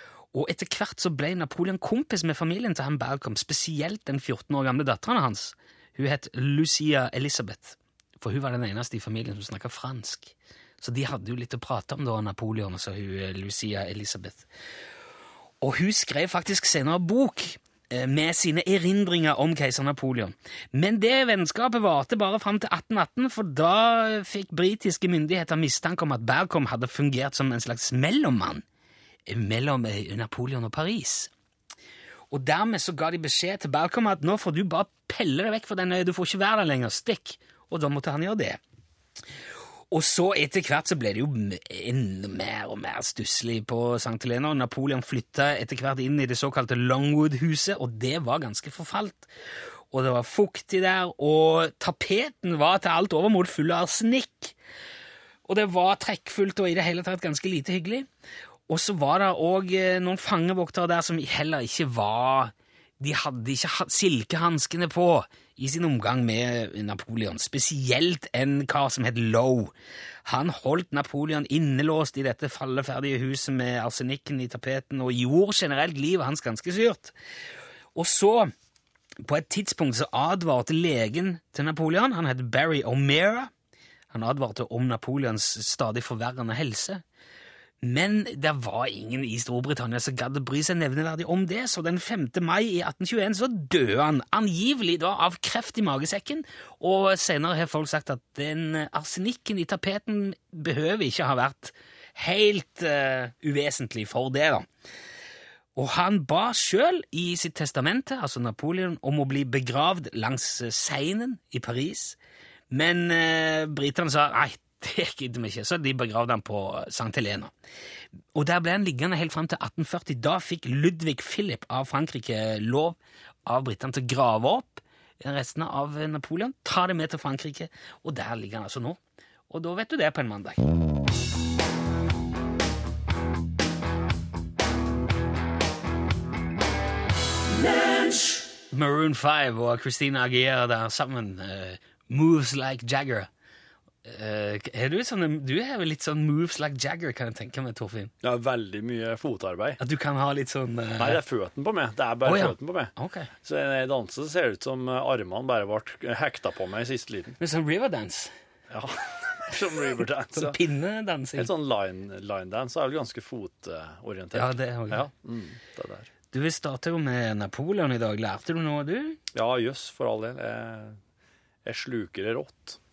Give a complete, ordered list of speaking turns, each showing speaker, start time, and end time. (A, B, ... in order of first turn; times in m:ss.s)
0:00.3-0:14.5 A
0:15.6-0:28.6 A
0:29.3-0:31.3 A
0:32.3-0:38.6 A
0:39.9-0:49.3 A
0:49.9-0:54.5 A
0:55.5-0:58.1 A
0:58.7-1:09.7 A
1:10.2-1:17.1 A
1:17.9-1:18.5 A
1:19.2-1:23.5 A
1:24.1-1:27.0 A
1:27.8-1:44.7 A
1:45.7-1:52.2 A
1:52.7-1:57.5 A
1:58.3-2:10.7 A
2:18.7-2:23.3 A
2:24.0-2:28.1 A
2:28.2-2:29.8 B
2:29.8-2:31.2 A
2:31.0-2:32.9 B
2:32.2-2:33.3 A
2:33.4-2:37.4 B
2:37.4-2:38.3 A
2:38.7-2:40.6 B
2:40.3-2:41.5 A
2:41.4-2:46.1 B
2:44.3-2:45.1 A
2:46.3-2:49.2 A
2:49.3-2:51.0 B
2:51.6-2:52.8 B